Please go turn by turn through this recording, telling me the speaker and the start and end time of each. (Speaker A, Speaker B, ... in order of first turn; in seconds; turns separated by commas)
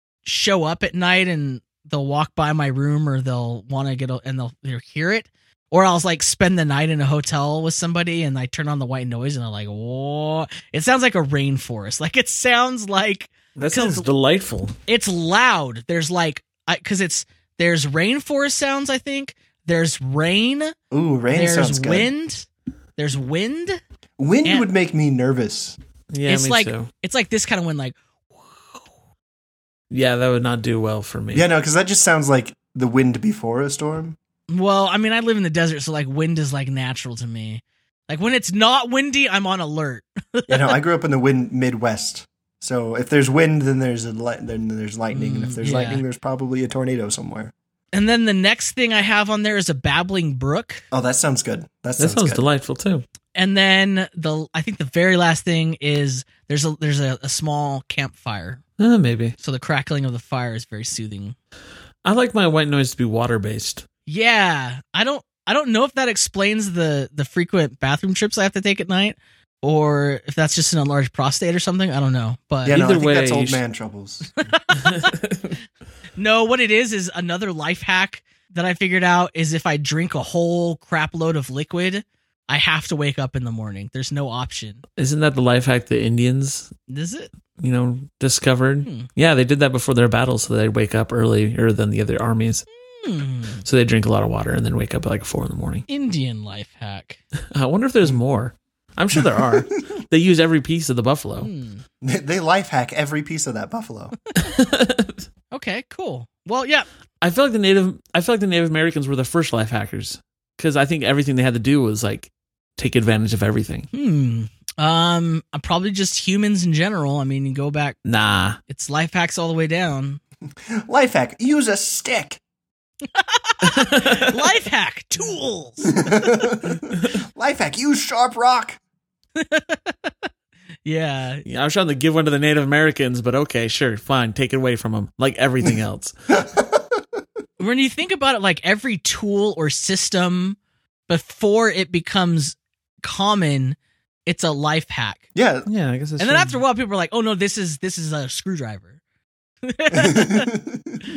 Speaker A: 0.2-14.1, Speaker B: 13.6-14.8, Speaker A: 14.9-20.8, Speaker C: 20.9-22.1, Speaker A: 21.3-23.8, Speaker C: 24.2-25.8, Speaker B: 26.1-26.9, Speaker A: 26.3-28.0, Speaker B: 29.9-31.5, Speaker C: 31.3-34.2, Speaker A: 34.5-40.7, Speaker C: 40.5-47.5, Speaker A: 45.1-46.0, Speaker A: 47.9-50.8, Speaker C: 50.9-52.4, Speaker B: 52.0-53.0, Speaker A: 53.4-58.6, Speaker B: 58.8-59.4, Speaker A: 59.4-61.4, Speaker B: 62.0-63.9, Speaker A: 64.1-72.8, Speaker C: 72.7-74.4, Speaker B: 72.7-73.6, Speaker A: 74.4-75.1, Speaker B: 74.8-75.6, Speaker A: 76.2-84.8, Speaker B: 85.0-86.7, Speaker A: 86.9-87.3, Speaker B: 87.6-92.7, Speaker A: 88.8-89.1, Speaker A: 92.9-93.6, Speaker B: 93.6-95.9, Speaker A: 95.9-97.2, Speaker B: 97.5-101.5, Speaker C: 99.2-99.6, Speaker A: 101.4-101.8, Speaker C: 102.0-104.2, Speaker B: 104.4-105.3, Speaker A: 105.5-106.9, Speaker B: 107.2-113.9, Speaker A: 113.9-118.0, Speaker B: 118.0-118.6, Speaker A: 118.7-120.2, Speaker C: 120.7-122.4, Speaker A: 123.1-126.4, Speaker B: 123.6-124.4, Speaker C: 125.9-128.8, Speaker A: 129.4-130.1, Speaker A: 130.8-131.4, Speaker B: 131.4-136.1, Speaker C: 136.3-137.0, Speaker A: 137.6-140.6, Speaker A: 141.1-145.2, Speaker C: 145.3-145.7, Speaker B: 145.7-146.6, Speaker A: 146.2-149.0, Speaker A: 149.6-150.5, Speaker C: 149.9-151.0